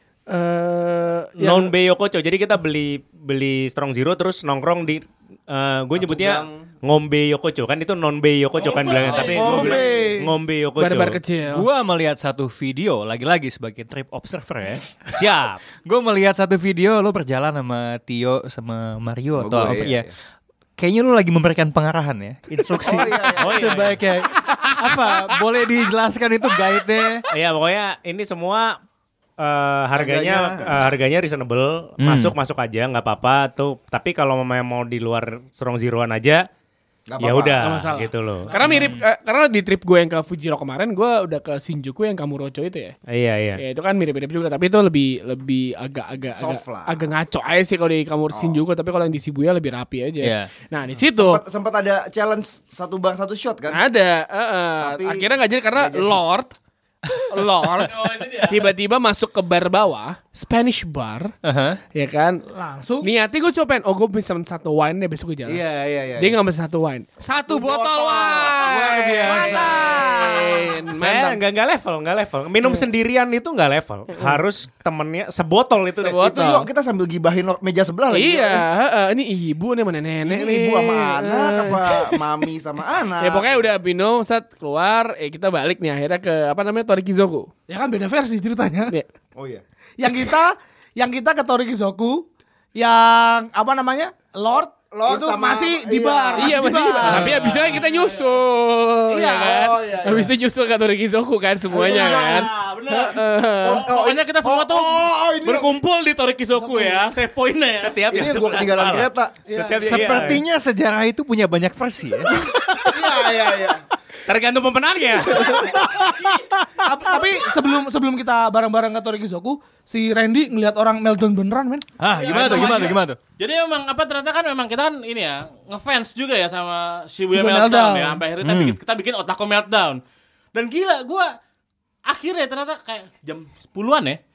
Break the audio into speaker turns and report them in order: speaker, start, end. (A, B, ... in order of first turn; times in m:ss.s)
0:00.3-0:01.7 A
0:01.4-0:11.2 B
0:06.0-0:06.7 C
0:08.6-0:09.6 D
0:09.0-0:10.2 C
0:09.3-0:10.3 E
0:10.8-0:11.7 A
0:11.5-0:15.0 F
0:15.0-0:15.6 B
0:15.8-0:20.1 F
0:19.4-0:20.1 C
0:20.8-0:27.3 F
0:22.7-0:23.7 C
0:23.4-0:24.1 B
0:27.3-0:28.8 B
0:29.4-0:36.5 B
0:30.0-0:30.9 C
0:32.0-0:32.3 F
0:37.1-0:37.7 C
0:37.2-0:38.5 B
0:37.6-0:43.0 A
0:38.5-0:38.9 E
0:38.6-0:39.0 F
0:43.1-0:43.6 B
0:43.6-0:51.4 A
0:46.4-0:47.1 C
0:48.3-0:48.6 C
0:50.2-0:50.5 F
0:51.1-0:53.8 C
0:53.7-0:56.6 A
0:54.8-0:56.2 C
0:57.3-1:01.4 A
0:57.8-0:58.7 D
1:01.4-1:01.8 F
1:01.9-1:02.4 A
1:02.5-1:03.1 E
1:03.0-1:05.6 A
1:05.5-1:06.4 C
1:06.2-1:11.4 A
1:07.4-1:08.9 C
1:08.6-1:09.8 F
1:09.3-1:10.7 E
1:11.0-1:16.3 B
1:16.0-1:16.7 A
1:16.1-1:18.6 C
1:18.1-1:22.2 A
1:20.2-1:23.7 C
1:23.2-1:27.5 A
1:27.7-1:29.0 E
1:29.4-1:29.6 C
1:30.0-1:37.8 E
1:34.9-1:37.4 C
1:36.4-1:43.9 A
1:37.1-1:37.9 D
1:39.1-1:39.8 E
1:39.2-1:40.3 C
1:41.7-1:48.2 D
1:43.6-1:45.8 C
1:46.6-1:47.2 E
1:47.8-1:50.4 B
1:48.1-1:50.4 C
1:49.8-1:53.1 F
1:52.3-1:53.8 C
1:54.3-1:56.1 B
1:55.4-1:56.5 D
1:56.8-2:02.8 E
2:02.0-2:03.2 F
2:02.2-2:10.0 D
2:07.3-2:08.2 E
2:08.4-2:08.8 F
2:10.5-2:11.3 D
2:12.1-2:14.2 D